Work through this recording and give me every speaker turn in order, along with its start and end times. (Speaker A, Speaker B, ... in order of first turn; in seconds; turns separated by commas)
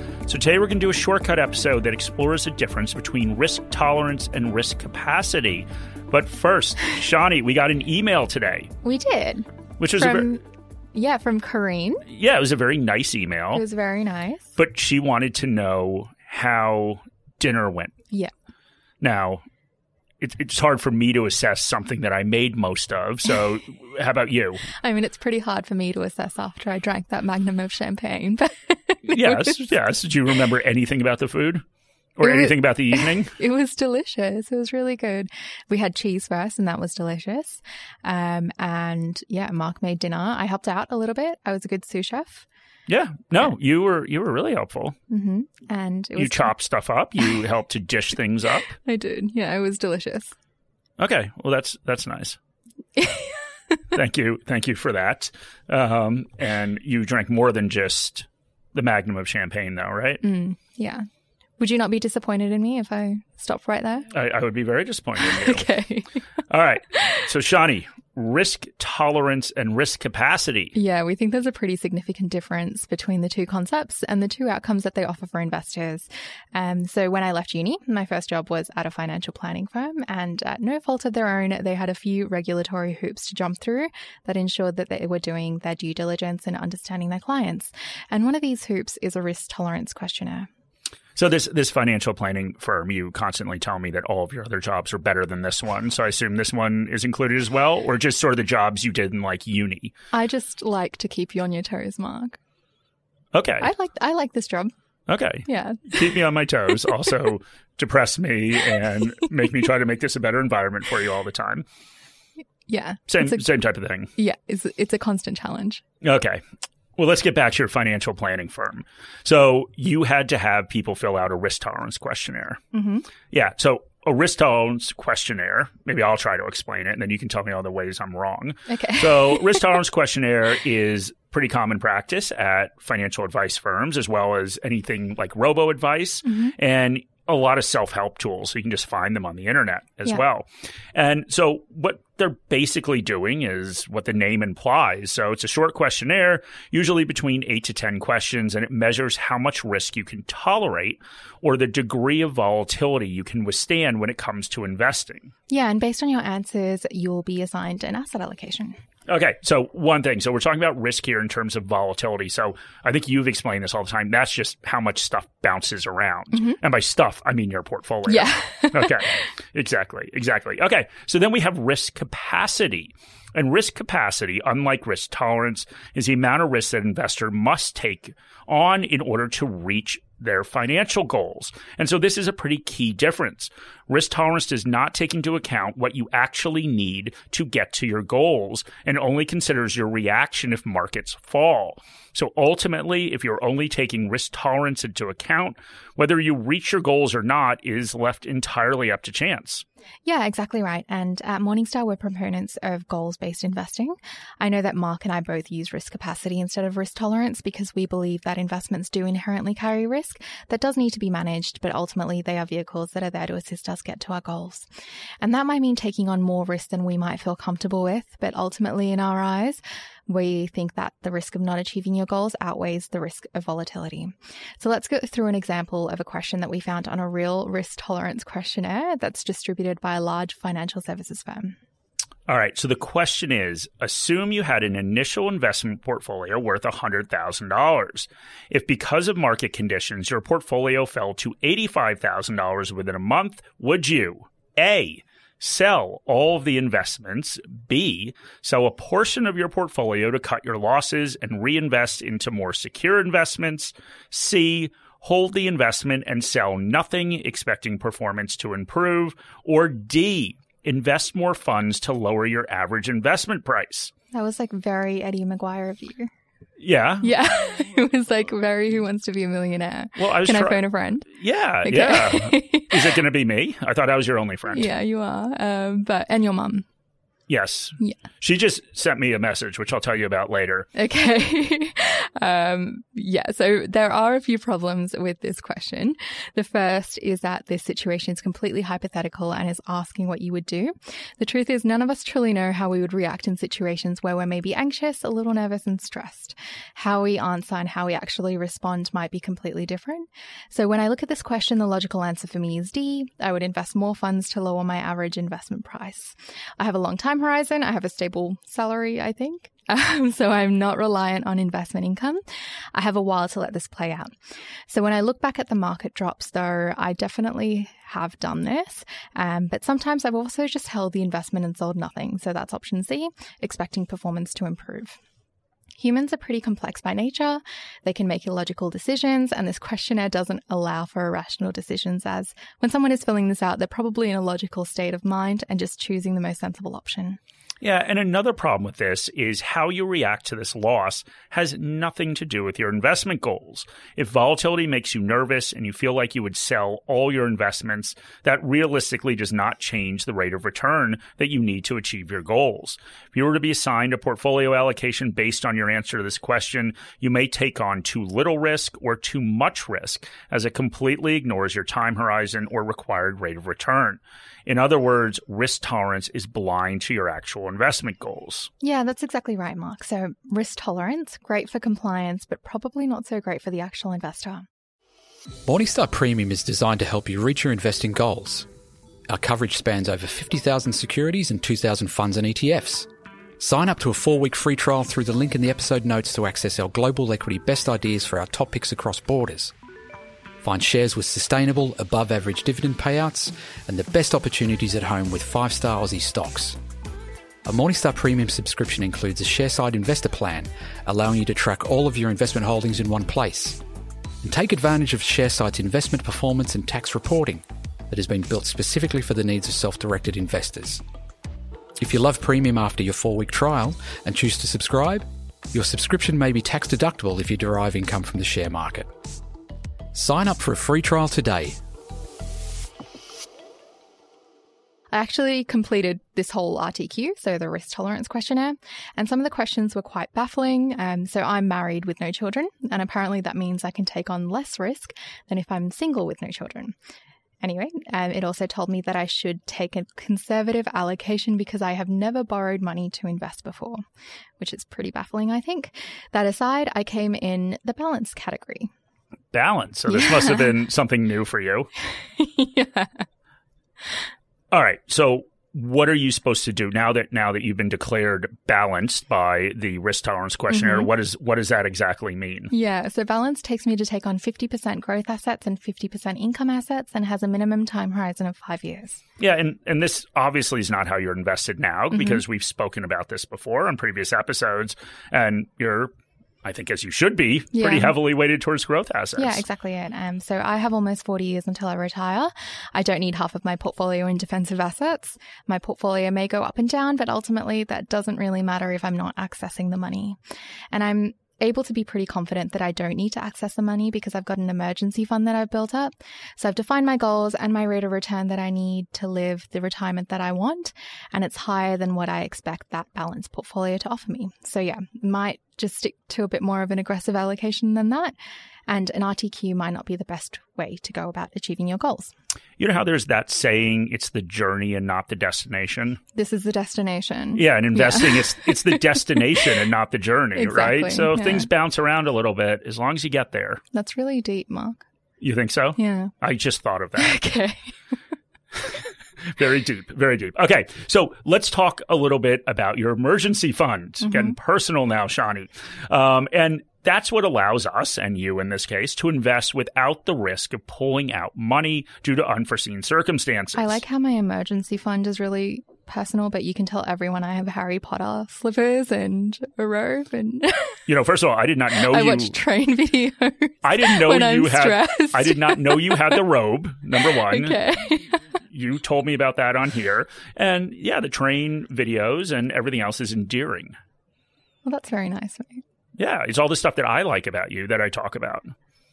Speaker A: 0.3-8.7, Speaker B: 8.8-10.4, Speaker A: 9.8-10.3, Speaker B: 10.9-12.0, Speaker A: 12.1-13.6, Speaker B: 13.5-14.6, Speaker A: 14.6-17.9, Speaker A: 19.0-19.4, Speaker A: 20.2-24.6, Speaker B: 24.8-29.6, Speaker A: 29.1-31.6, Speaker A: 32.2-33.3, Speaker B: 32.2-42.5, Speaker A: 42.9-45.0, Speaker B: 45.1-46.5, Speaker A: 46.2-48.8, Speaker B: 48.8-50.3, Speaker A: 51.0-52.4, Speaker B: 53.0-53.4, Speaker A: 53.9-60.2, Speaker B: 60.2-61.0, Speaker B: 61.6-64.1, Speaker A: 64.1-65.7, Speaker B: 65.2-66.2, Speaker A: 66.5-70.7, Speaker B: 70.7-90.5, Speaker A: 91.2-99.9, Speaker B: 100.1-102.4, Speaker A: 103.3-103.7, Speaker B: 103.6-104.7, Speaker A: 105.1-111.6, Speaker B: 105.5-106.0, Speaker B: 112.7-113.5, Speaker A: 113.1-114.1, Speaker B: 114.2-115.8, Speaker A: 116.0-116.4, Speaker A: 117.0-122.6, Speaker B: 122.7-123.1, Speaker A: 123.3-155.3, Speaker B: 128.7-129.6, Speaker B: 136.2-136.5, Speaker B: 155.5-158.8, Speaker A: 159.1-199.6, Speaker B: 166.3-166.6, Speaker B: 168.1-168.9, Speaker B: 200.0-214.7, Speaker B: 215.2-231.6, Speaker A: 232.3-263.9, Speaker B: 264.1-266.1, Speaker A: 266.6-267.1, Speaker B: 267.0-271.1, Speaker A: 269.9-274.7, Speaker B: 271.6-272.8, Speaker B: 274.5-276.6, Speaker A: 277.3-280.7, Speaker B: 280.8-312.2, Speaker B: 312.7-314.1, Speaker B: 314.7-325.0, Speaker B: 325.8-337.2, Speaker A: 337.6-368.5, Speaker B: 368.6-374.4, Speaker C: 375.4-378.5, Speaker C: 379.1-389.5, Speaker C: 390.4-396.6, Speaker C: 397.4-403.6, Speaker C: 404.2-410.8, Speaker C: 411.8-418.9, Speaker C: 419.9-421.6, Speaker B: 424.9-436.8, Speaker B: 437.4-443.8, Speaker B: 444.4-448.7, Speaker A: 449.3-451.7, Speaker B: 449.9-450.5, Speaker B: 452.1-453.1, Speaker A: 454.5-462.5, Speaker B: 460.5-460.9, Speaker B: 462.5-469.0, Speaker A: 469.2-475.9, Speaker B: 471.9-472.2, Speaker A: 476.4-479.4, Speaker B: 477.5-477.9, Speaker B: 479.2-490.2, Speaker B: 490.7-508.1, Speaker B: 508.7-512.1, Speaker A: 512.6-516.0, Speaker B: 516.1-519.2, Speaker A: 517.4-523.6, Speaker B: 520.4-521.5, Speaker B: 523.7-524.8, Speaker A: 525.2-527.2, Speaker B: 525.8-526.1, Speaker B: 527.0-527.6, Speaker A: 529.3-543.8, Speaker B: 534.0-534.4, Speaker B: 543.5-550.8, Speaker A: 550.9-552.4, Speaker B: 551.8-556.2, Speaker A: 553.6-557.6, Speaker B: 557.1-558.2, Speaker A: 558.5-563.8, Speaker B: 564.6-565.6, Speaker A: 566.0-568.5